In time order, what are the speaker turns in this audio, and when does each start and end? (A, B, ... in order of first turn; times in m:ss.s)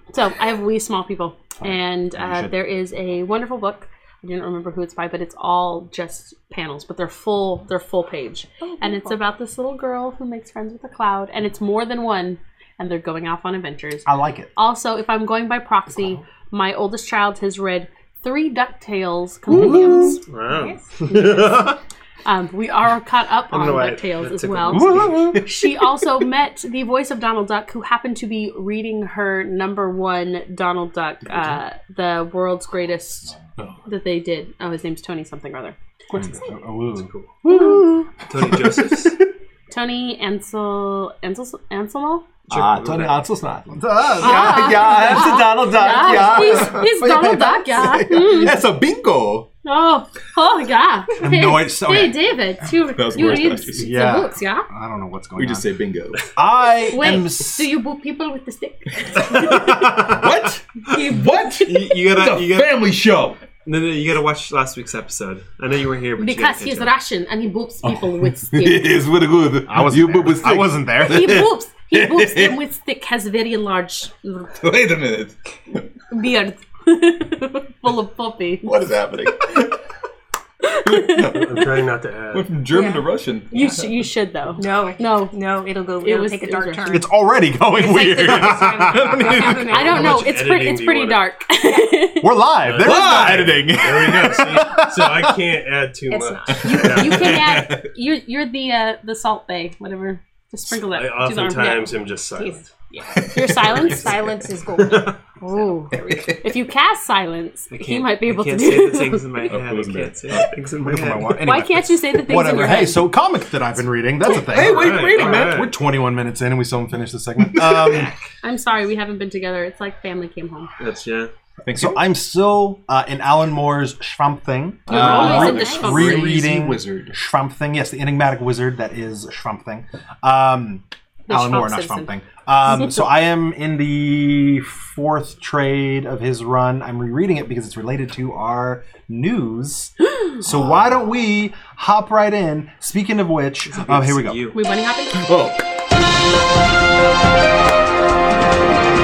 0:00.1-0:20.2 A
0:01.6-0:02.6 B
0:08.6-0:09.2 C
0:14.0-0:14.5 D
0:19.5-0:20.2 B
0:20.3-0:21.7 E
0:20.5-0:20.8 C
0:21.1-0:21.7 A
0:22.2-0:35.8 A
0:23.5-0:25.3 E
0:24.7-0:25.6 B
0:31.2-0:31.6 B
0:36.1-0:36.4 B
0:36.1-0:37.1 D
0:37.4-0:39.2 B
0:37.4-0:38.1 A
0:38.3-0:39.1 E
0:39.7-0:42.2 A
0:42.5-0:47.4 B
0:42.5-0:43.2 E
0:43.7-0:48.5 D
0:44.2-0:48.6 A
0:47.9-0:49.5 B
0:49.6-0:54.7 A
0:51.2-0:52.2 D
0:52.8-0:54.0 B
0:53.8-0:55.7 D
0:55.3-0:56.2 B
0:56.3-0:57.7 D
0:56.9-1:00.2 A
0:59.5-1:03.4 B
1:00.8-1:01.9 A
1:01.6-1:02.9 E
1:03.6-1:06.9 E
1:06.2-1:08.9 A
1:07.8-1:12.6 B
1:09.6-1:11.4 D
1:11.0-1:14.5 A
1:14.6-1:15.8 B
1:16.1-1:18.7 A
1:18.6-1:19.8 B
1:20.6-1:21.6 A
1:20.7-1:23.9 B
1:21.3-1:22.6 F
1:22.7-1:23.7 C
1:23.5-1:25.3 A
1:24.6-1:27.1 C
1:26.0-1:27.0 A
1:26.9-1:29.8 D
1:27.7-1:30.3 C
1:29.3-1:31.2 F
1:29.4-1:32.4 A
1:32.2-1:35.4 D
1:32.6-1:37.2 F
1:32.8-1:34.5 B
1:36.1-1:37.4 C
1:36.5-1:37.8 B
1:36.6-1:42.0 A
1:40.8-1:42.7 F
1:42.4-1:46.4 C
1:43.1-1:43.8 B
1:43.3-1:44.2 A
1:45.4-1:49.4 A
1:46.0-1:46.4 B
1:47.7-1:51.5 E
1:49.5-1:50.5 B
1:50.9-1:58.1 D
1:51.0-1:51.3 B
1:51.4-1:53.1 A
1:54.2-1:55.7 B
1:54.6-1:55.7 F
1:54.9-1:55.5 E
1:57.5-1:58.1 B
1:58.4-2:00.7 A
2:00.8-2:01.3 E
2:01.6-2:02.0 B
2:01.7-2:24.5 D
2:04.9-2:07.2 B
2:04.9-2:06.4 A
2:05.0-2:06.0 C
2:11.3-2:12.1 A
2:23.7-2:24.6 E
2:24.5-2:25.3 A
2:25.1-2:25.6 B